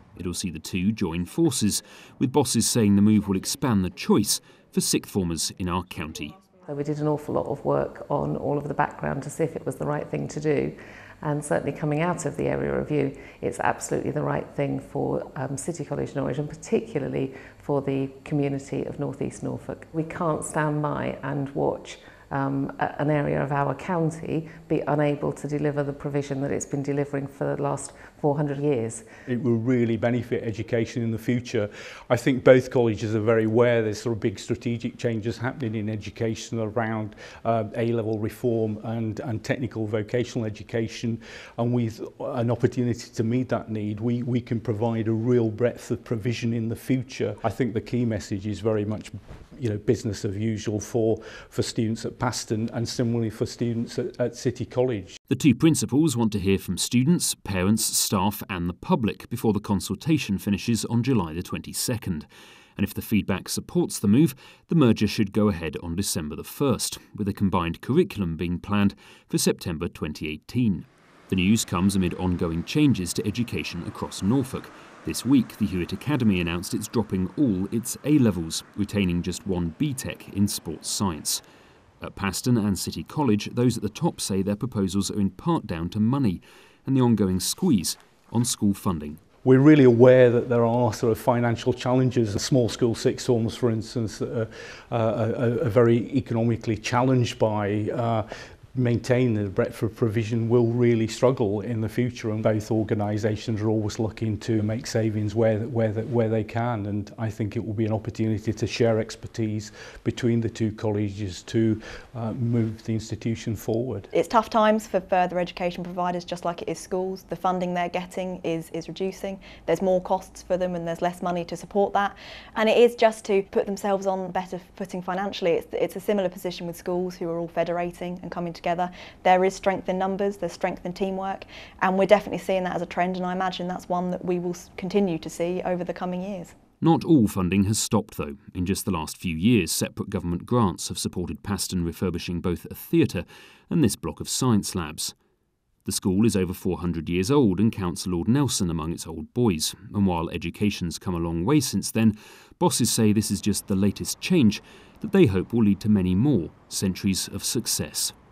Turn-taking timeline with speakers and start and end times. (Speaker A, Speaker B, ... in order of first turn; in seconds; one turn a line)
Speaker A: 0.2-6.4
Speaker B: 6.7-29.1
Speaker C: 29.3-55.2
Speaker A: 55.3-81.4
Speaker A: 82.0-89.2
Speaker C: 89.4-114.1
Speaker D: 114.1-136.5
Speaker A: 136.8-145.2
Speaker A: 145.8-158.2